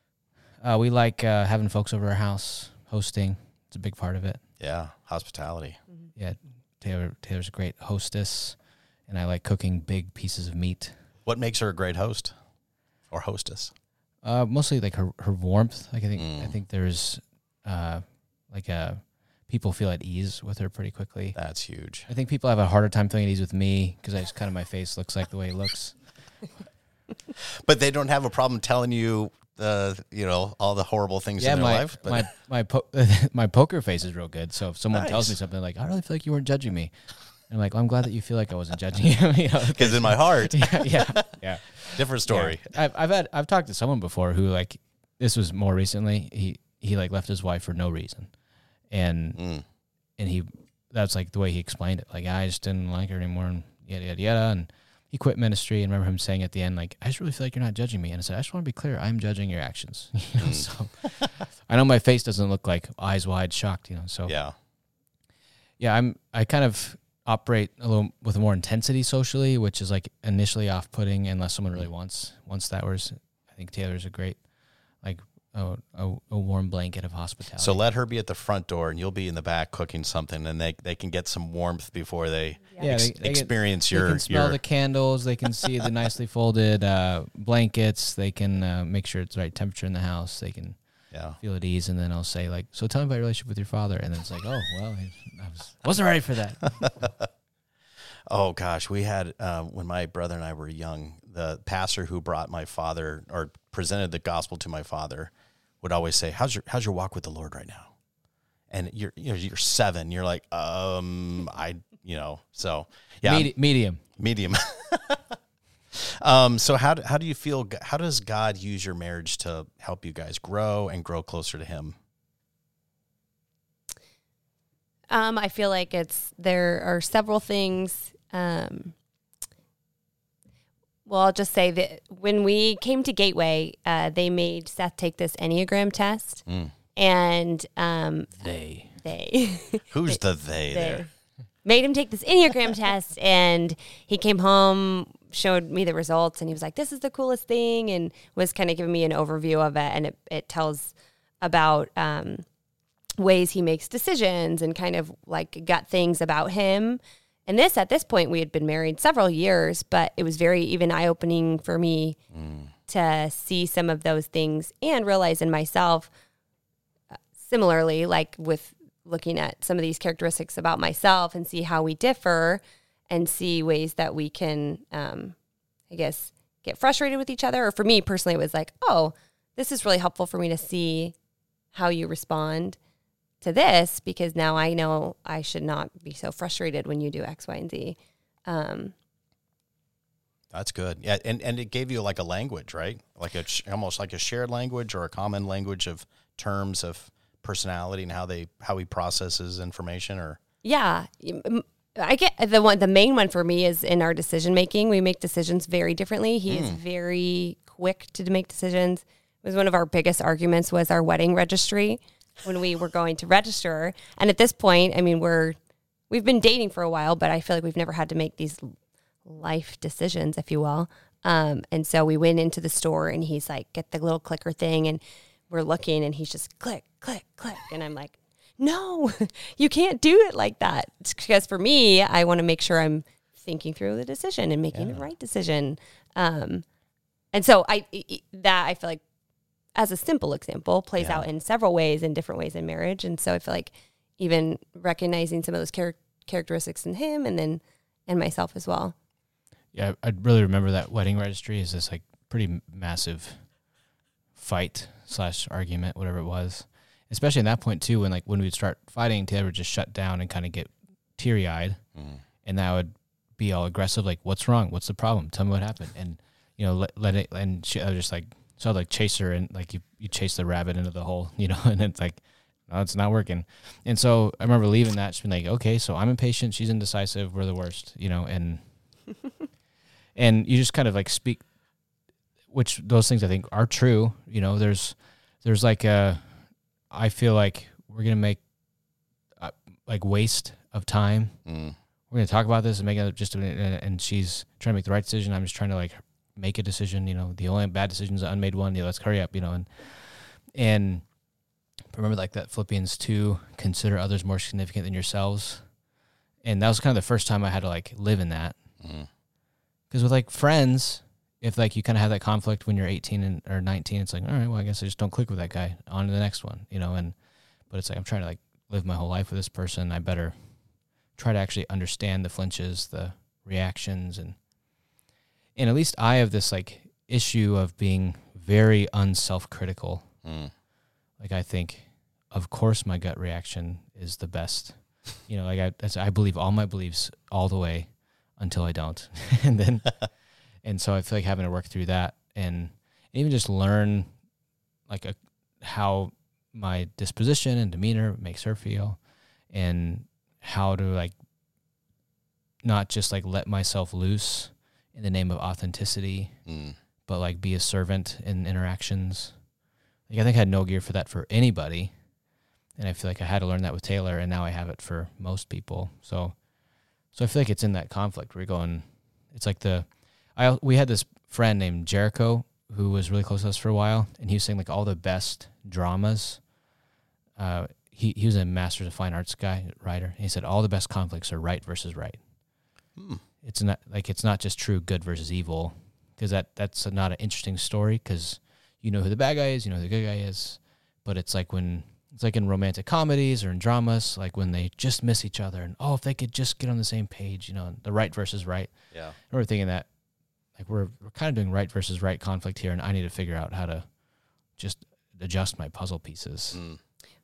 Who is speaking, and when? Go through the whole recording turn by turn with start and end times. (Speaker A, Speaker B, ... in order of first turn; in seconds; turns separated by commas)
Speaker A: 0.6-4.4, Speaker B: 4.6-5.8, Speaker A: 6.2-8.6, Speaker A: 9.1-10.9, Speaker B: 11.2-12.3, Speaker B: 13.1-13.7, Speaker A: 14.2-21.4, Speaker B: 16.2-16.5, Speaker B: 21.3-22.1, Speaker A: 22.1-26.0, Speaker B: 27.6-32.3, Speaker A: 31.4-36.9, Speaker B: 34.9-35.3, Speaker A: 37.5-48.3, Speaker B: 39.7-41.4, Speaker B: 41.9-42.8, Speaker A: 48.9-49.4, Speaker B: 49.4-49.6, Speaker A: 50.2-64.3, Speaker B: 60.4-61.3, Speaker B: 64.2-64.5, Speaker A: 65.8-74.4, Speaker A: 75.0-77.8, Speaker B: 77.6-84.6, Speaker A: 82.8-90.8, Speaker B: 91.1-91.4, Speaker A: 91.4-97.1, Speaker B: 96.8-97.3, Speaker B: 98.3-107.9, Speaker B: 108.7-113.5, Speaker A: 113.2-114.0, Speaker B: 114.2-115.3, Speaker B: 115.9-122.0, Speaker C: 125.1-128.9, Speaker C: 131.1-136.4, Speaker B: 136.5-136.7, Speaker C: 136.9-138.4, Speaker A: 138.4-138.9, Speaker C: 139.0-140.2, Speaker B: 139.9-141.1, Speaker C: 140.7-141.1, Speaker C: 141.6-152.4, Speaker C: 153.2-162.2, Speaker B: 162.3-162.7, Speaker C: 162.9-166.1, Speaker C: 167.4-175.3, Speaker C: 175.9-181.2, Speaker C: 181.7-182.8, Speaker C: 183.4-188.9, Speaker B: 190.5-200.4, Speaker C: 200.6-215.6, Speaker B: 206.5-206.8, Speaker C: 216.1-218.7, Speaker C: 219.2-236.6, Speaker B: 234.7-235.0, Speaker C: 237.3-239.0, Speaker C: 239.7-248.9, Speaker B: 241.0-241.3, Speaker A: 249.7-253.4, Speaker A: 254.3-261.8, Speaker B: 261.9-262.2, Speaker A: 262.4-278.6, Speaker A: 280.1-281.4, Speaker A: 282.5-286.4, Speaker A: 286.9-288.4, Speaker A: 289.4-291.4, Speaker B: 291.4-291.8, Speaker A: 292.1-301.0, Speaker A: 301.9-305.6, Speaker A: 306.4-308.6, Speaker B: 308.8-309.1, Speaker A: 309.9-317.1, Speaker A: 317.7-320.3, Speaker A: 321.2-324.4, Speaker A: 325.6-330.1, Speaker B: 330.2-330.5, Speaker A: 331.2-340.0, Speaker A: 340.6-344.1, Speaker A: 344.9-349.0, Speaker A: 349.5-351.1, Speaker A: 352.6-356.4, Speaker B: 356.5-356.8, Speaker A: 357.1-359.3, Speaker A: 360.1-361.9, Speaker A: 362.8-366.4, Speaker A: 367.1-376.4, Speaker A: 377.4-382.2, Speaker B: 383.0-383.2, Speaker A: 383.4-399.9, Speaker A: 400.6-403.9, Speaker A: 404.6-406.6, Speaker B: 406.5-406.8